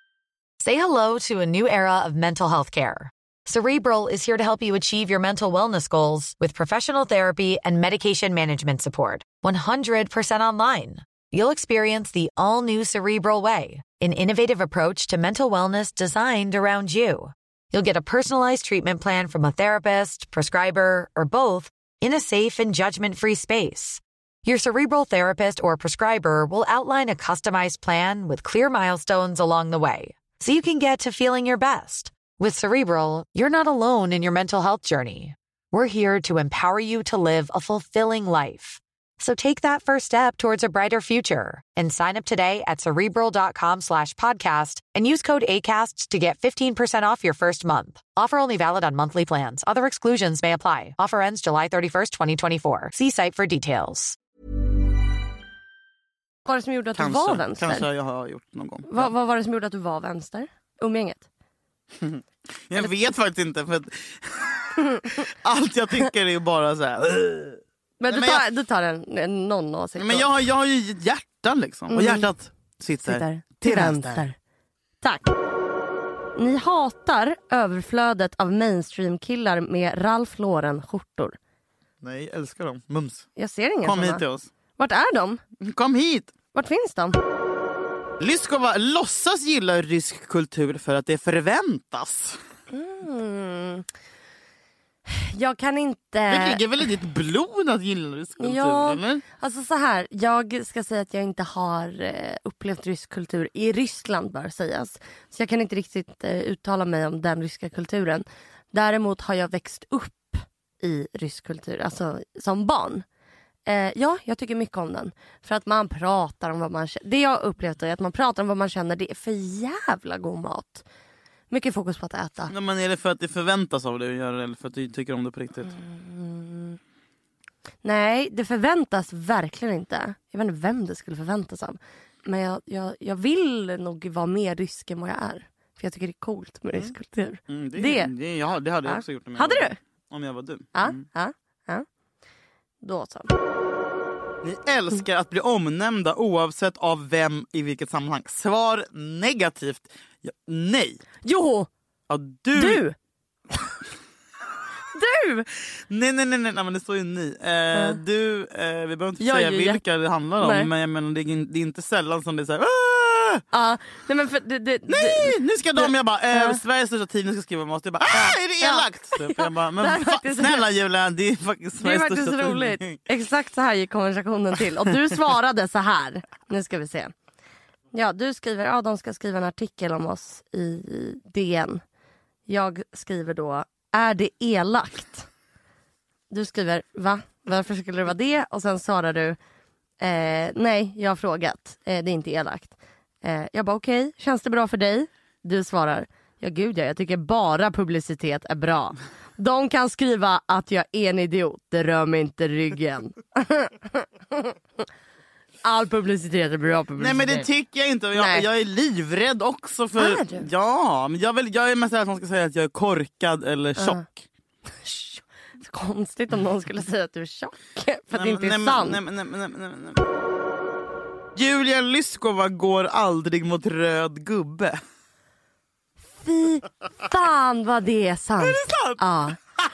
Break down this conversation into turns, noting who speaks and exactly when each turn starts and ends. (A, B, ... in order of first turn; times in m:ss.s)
0:00.6-0:54.2 A
0:56.4-0:57.8 B
0:57.0-0:59.1 C
0:58.9-1:01.3 B
1:02.0-1:08.4 C
1:04.8-1:05.1 B
1:08.0-1:10.3 B
1:10.0-1:14.2 C
1:11.9-1:12.2 B
1:13.0-1:14.4 B
1:15.0-1:15.3 B
1:16.4-1:21.4 B
1:22.0-1:23.3 C
1:23.4-1:24.2 B
1:23.8-1:24.5 C
1:24.8-1:25.4 B
1:25.6-1:26.3 C
1:26.5-1:27.2 B
1:28.2-1:32.4 C
1:32.7-1:33.8 B
1:35.1-1:36.6 B
1:36.3-1:39.2 C
1:38.4-1:53.0 B
1:53.7-2:00.8 B
2:01.5-2:02.5 B
2:02.5-2:05.7 C
2:05.7-2:06.8 B
2:07.8-2:18.1 B
2:17.5-2:21.0 C
2:18.8-2:19.8 B
2:20.7-2:21.8 B
2:22.8-2:23.3 B
2:24.4-2:31.0 C
2:31.2-2:31.7 B
2:32.1-2:32.8 C
2:32.5-2:32.9 B
2:34.9-2:35.5 B
2:35.7-2:43.4 C
2:37.7-2:38.0 B
2:39.2-2:39.8 B
2:40.4-2:40.7 B
2:43.5-2:46.6 B
2:44.9-2:53.0 C
2:48.1-2:50.6 B
2:51.8-2:57.1 B
2:57.9-3:01.8 B
3:02.5-3:05.3 B
3:06.3-3:09.4 B
3:10.0-3:24.5 B
3:25.6-3:27.5 B
3:27.0-3:34.2 C
3:28.2-3:28.4 B
3:30.0-3:30.5 B
3:33.8-3:34.0 B
3:34.8-3:39.0 B
3:38.1-3:40.0 C
3:41.4-3:44.8 C
3:46.2-3:49.4 B
3:48.4-3:49.0 C